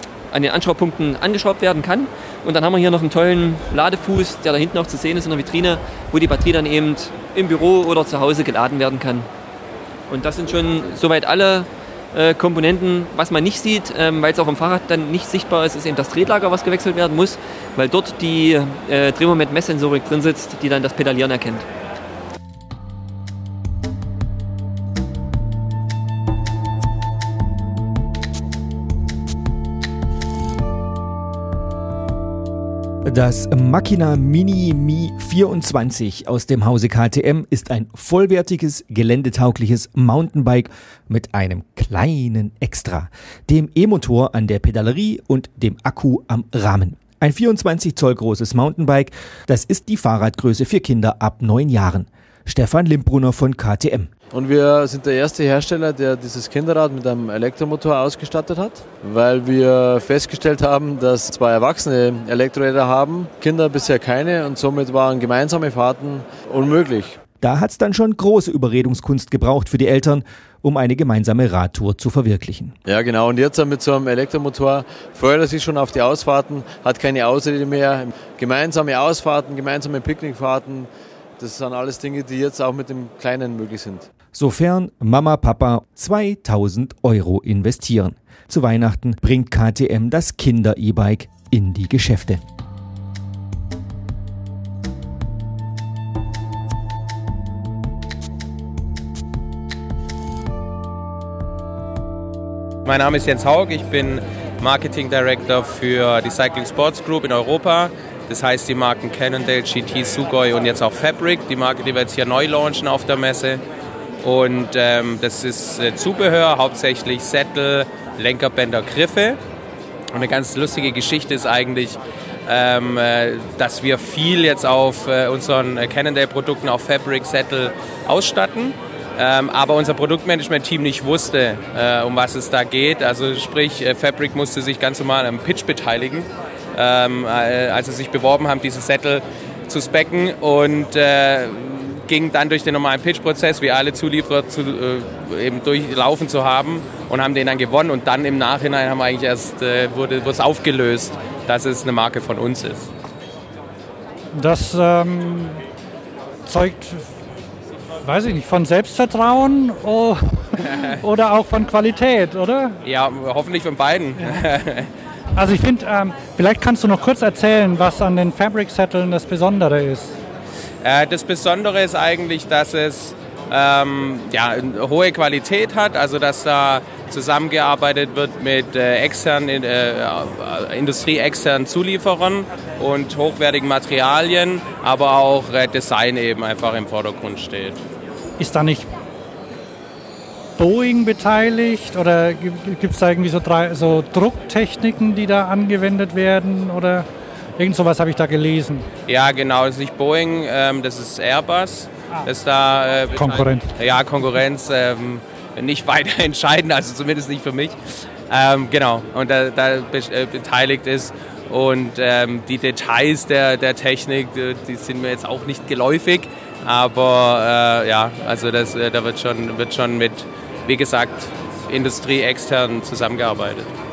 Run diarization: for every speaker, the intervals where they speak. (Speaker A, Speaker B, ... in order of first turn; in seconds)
Speaker A: 0.3-9.3, 10.1-21.6
Speaker B: 33.0-54.1, 67.4-72.8, 84.3-92.4
Speaker C: 54.3-67.2, 72.8-84.1
Speaker D: 102.8-113.6, 114.2-119.4, 120.1-152.9, 162.8-164.9, 170.8-187.8, 199.1-207.8, 208.3-223.7
Speaker E: 154.3-155.6, 156.4-157.1, 158.0-162.8, 165.3-170.2, 188.4-188.9, 190.6-197.1, 197.6-198.9, 203.1-203.7